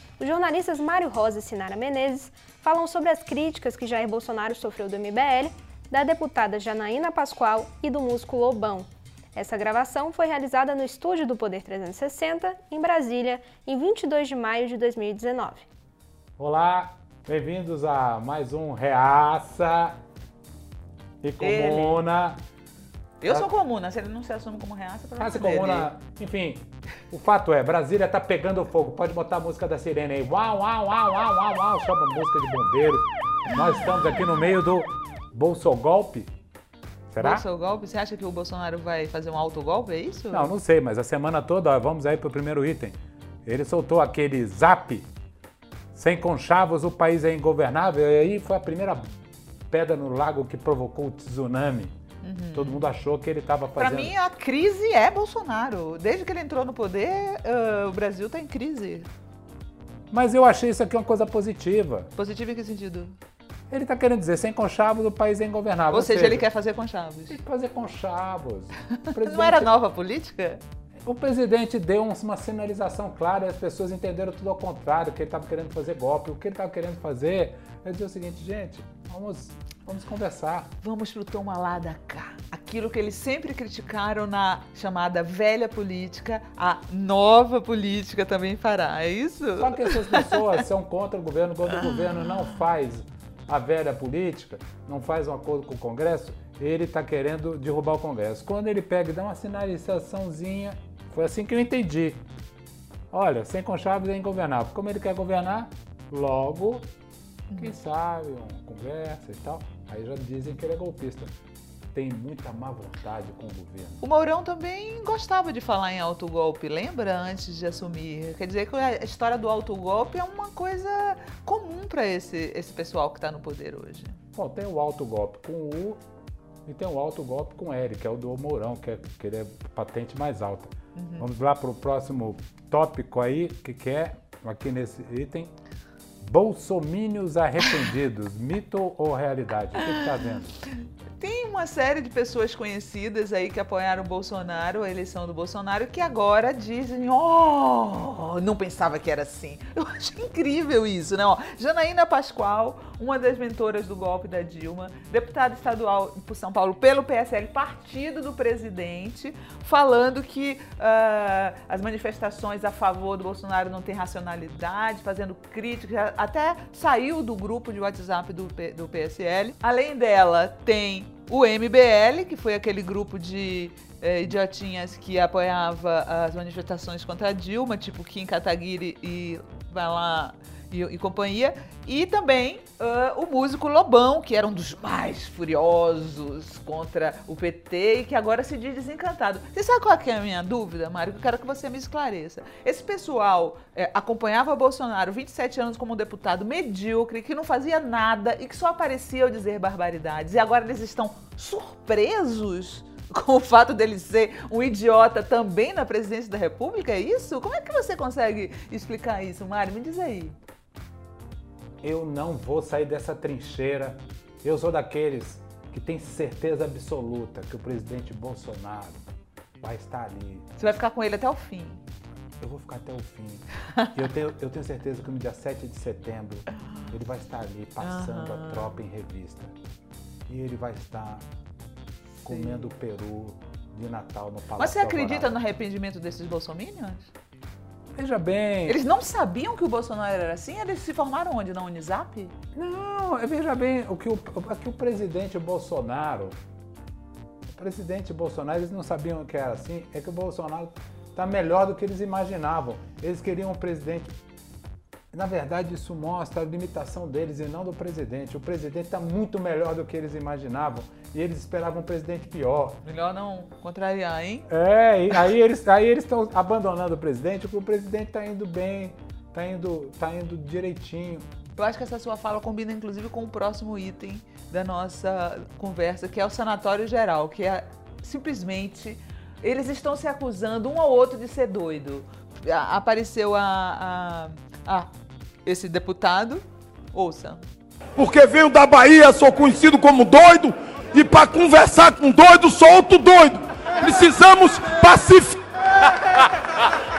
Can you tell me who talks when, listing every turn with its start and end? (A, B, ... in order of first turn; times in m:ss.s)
0:00.2-0:15.6 A
0:16.4-0:20.0 B
0:21.2-0:22.4 B
0:21.4-0:22.0 C
0:23.2-0:25.9 C
0:25.2-0:36.3 B
0:37.1-0:37.4 B
0:37.2-0:40.5 C
0:40.3-0:45.1 B
0:45.9-0:49.2 B
0:49.7-0:52.0 B
0:52.2-0:52.9 C
0:52.5-0:54.1 B
0:53.8-0:59.1 C
1:00.1-1:02.1 B
1:02.2-1:03.2 C
1:03.7-1:06.4 B
1:05.9-1:07.4 C
1:07.3-1:09.7 B
1:09.2-1:10.6 C
1:11.0-1:20.7 B
1:20.8-1:30.4 C
1:29.6-1:42.2 B
1:31.8-1:32.4 C
1:43.1-1:46.9 B
1:47.5-1:47.8 C
1:47.6-1:51.3 B
1:51.9-1:54.0 B
1:54.0-2:04.2 C
2:04.4-2:06.0 B
2:06.7-2:15.5 B
2:11.0-2:11.3 C
2:16.2-2:20.6 B
2:19.8-2:20.4 C
2:21.2-3:30.4 C
3:31.8-3:40.5 B
3:40.6-3:41.8 C
3:42.4-3:49.5 B
3:47.8-3:48.8 C
3:50.3-3:51.3 B
3:52.2-3:52.7 C
3:52.2-3:55.4 B
3:54.6-3:57.1 C
3:58.0-3:58.8 B
3:58.7-4:02.4 C
4:02.5-4:06.4 B
4:07.5-4:14.2 B
4:15.1-4:22.8 B
4:22.8-4:24.5 C
4:24.5-4:31.3 B
4:31.6-4:44.9 C
4:45.4-4:47.5 C
4:48.0-4:56.2 D